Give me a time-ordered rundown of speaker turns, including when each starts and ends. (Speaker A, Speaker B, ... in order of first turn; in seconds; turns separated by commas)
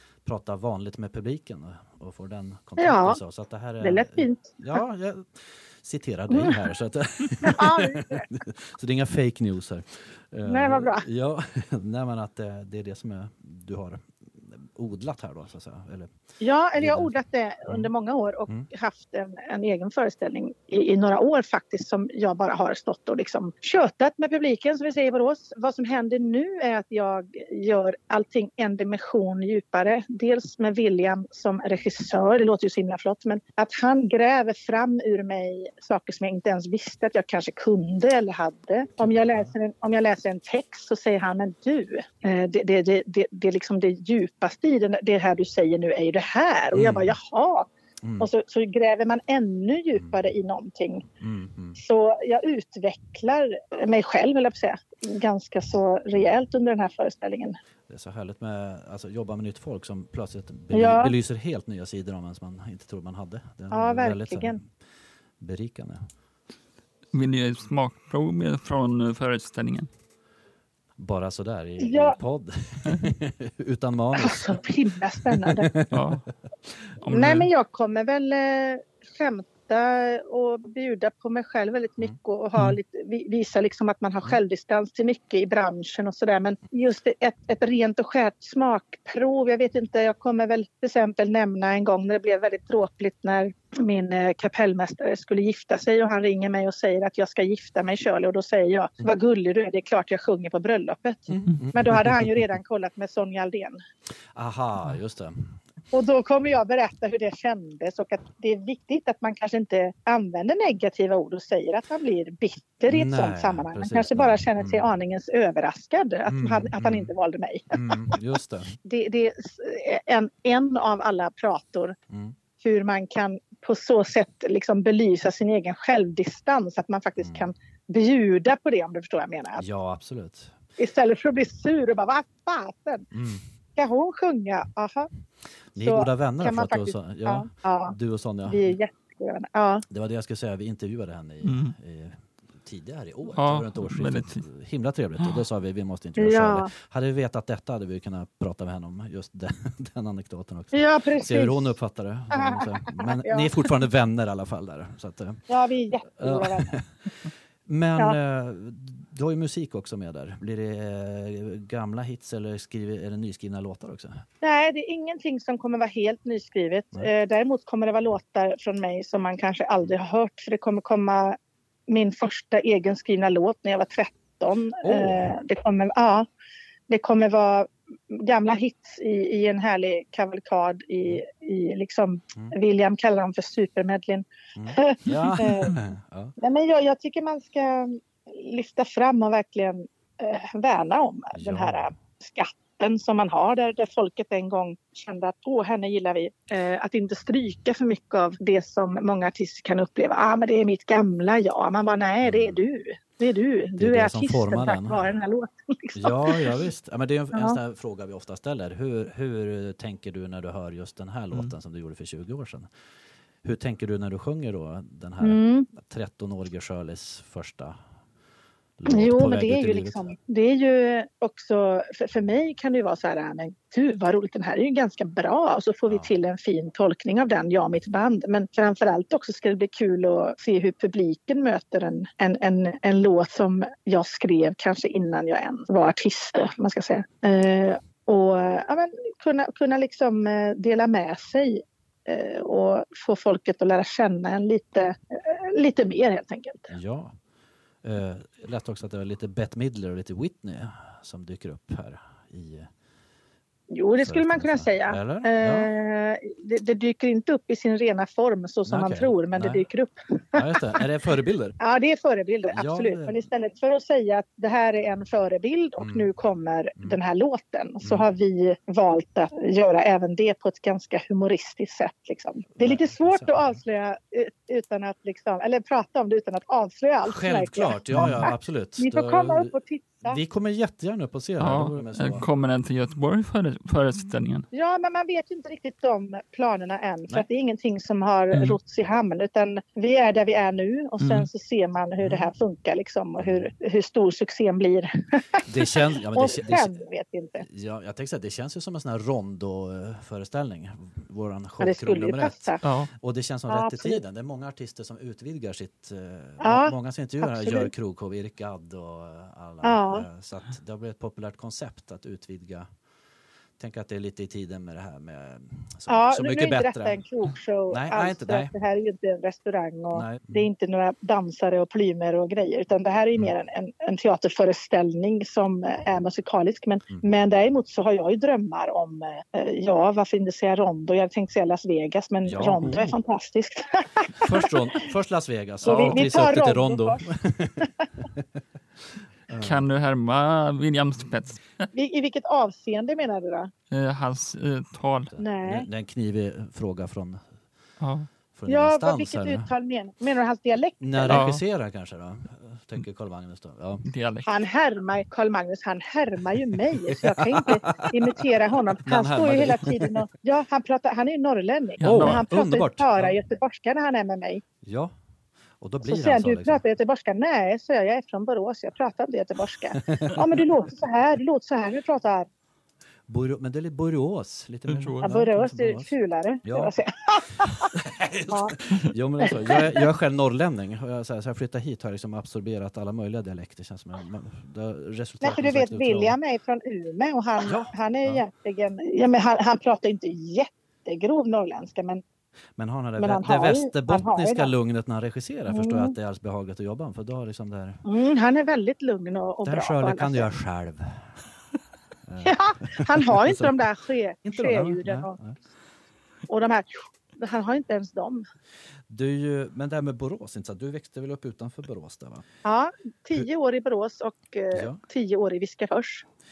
Speaker A: 0.2-16.1, Speaker B: 2.8-3.2, Speaker B: 3.8-4.8, Speaker B: 6.3-6.6, Speaker B: 7.4-8.3, Speaker B: 10.4-11.1, Speaker B: 16.4-47.7, Speaker A: 16.8-17.1, Speaker A: 39.0-39.5, Speaker A: 46.7-47.1, Speaker A: 48.0-48.3, Speaker B: 48.2-51.0, Speaker A: 51.2-51.8, Speaker B: 51.8-57.5, Speaker A: 57.9-64.6, Speaker B: 60.7-61.1, Speaker B: 63.7-64.6, Speaker A: 65.4-66.1, Speaker C: 67.1-69.9, Speaker A: 71.0-74.6, Speaker B: 71.8-72.2, Speaker B: 74.2-75.7, Speaker A: 75.2-76.0, Speaker C: 75.9-76.3, Speaker C: 77.0-77.5, Speaker B: 77.1-103.8, Speaker A: 101.3-102.4, Speaker A: 104.3-105.6, Speaker B: 105.9-118.2, Speaker A: 112.9-114.8, Speaker A: 116.3-117.1, Speaker A: 117.7-118.8, Speaker B: 118.8-122.0, Speaker A: 122.1-122.3, Speaker B: 122.6-129.6, Speaker A: 127.2-127.5, Speaker A: 129.6-130.6, Speaker B: 130.8-133.1, Speaker A: 133.1-133.4, Speaker B: 133.8-135.1, Speaker A: 135.7-138.7, Speaker B: 135.8-137.9, Speaker B: 138.5-139.8, Speaker A: 139.9-155.5, Speaker C: 141.4-141.7, Speaker C: 143.3-144.4, Speaker B: 146.2-146.7, Speaker B: 150.7-151.7, Speaker B: 152.3-153.5, Speaker B: 155.5-156.8, Speaker A: 156.2-164.2, Speaker B: 164.4-171.4, Speaker B: 171.9-176.2, Speaker A: 174.8-175.3, Speaker B: 176.9-185.8, Speaker A: 184.5-186.3, Speaker B: 186.4-206.6, Speaker A: 191.3-191.9, Speaker A: 202.2-202.6, Speaker A: 203.8-205.1, Speaker A: 205.9-212.7, Speaker B: 207.3-207.6, Speaker A: 213.4-217.8, Speaker B: 215.2-215.7, Speaker A: 218.8-220.1, Speaker B: 218.9-246.7, Speaker A: 225.9-226.1, Speaker A: 246.7-247.2, Speaker A: 247.8-252.7, Speaker B: 253.7-260.8, Speaker A: 254.0-255.7, Speaker A: 258.6-259.6, Speaker A: 260.3-261.6, Speaker B: 261.6-280.2, Speaker A: 262.5-263.2, Speaker A: 265.8-266.1, Speaker A: 272.6-273.6, Speaker A: 277.0-279.5, Speaker C: 277.9-278.2, Speaker A: 280.0-282.2, Speaker C: 281.4-284.4, Speaker B: 284.5-297.4, Speaker C: 288.3-288.6, Speaker C: 291.0-291.3, Speaker A: 292.0-292.2, Speaker A: 293.2-293.5, Speaker A: 295.4-296.8, Speaker A: 297.4-312.7, Speaker B: 301.6-302.6, Speaker C: 302.6-302.9, Speaker B: 303.5-304.0, Speaker B: 306.4-307.7, Speaker B: 309.6-310.1, Speaker A: 313.6-317.0, Speaker B: 315.9-334.5, Speaker A: 317.7-318.5, Speaker A: 319.9-320.4, Speaker A: 332.2-332.9, Speaker A: 334.2-338.4, Speaker C: 335.6-336.1, Speaker B: 335.6-337.0, Speaker A: 339.3-339.6, Speaker C: 339.4-341.7, Speaker B: 341.7-343.5, Speaker C: 343.7-345.1, Speaker A: 345.1-347.3, Speaker B: 345.2-345.7, Speaker C: 347.8-348.1, Speaker A: 348.3-349.5, Speaker B: 348.5-351.2, Speaker A: 350.8-353.8, Speaker C: 351.1-351.4, Speaker C: 353.8-354.4, Speaker B: 354.2-364.4, Speaker A: 356.9-358.2, Speaker A: 358.8-359.9, Speaker C: 361.8-362.2, Speaker A: 361.8-363.1, Speaker A: 364.6-364.9, Speaker A: 365.6-366.6, Speaker B: 365.8-372.3, Speaker A: 369.7-370.4, Speaker A: 373.1-375.9, Speaker C: 374.7-375.1, Speaker B: 375.0-377.7, Speaker A: 376.4-376.7, Speaker A: 377.5-386.2, Speaker B: 378.3-378.6, Speaker B: 379.2-379.8, Speaker B: 385.2-392.0, Speaker A: 387.4-388.2, Speaker A: 392.6-397.8, Speaker B: 393.0-394.5, Speaker B: 395.5-395.9, Speaker B: 397.8-400.3, Speaker A: 399.4-401.2, Speaker A: 402.1-405.4, Speaker B: 402.2-405.2, Speaker B: 406.3-408.2, Speaker A: 408.9-412.2, Speaker B: 412.4-416.0, Speaker A: 414.5-414.8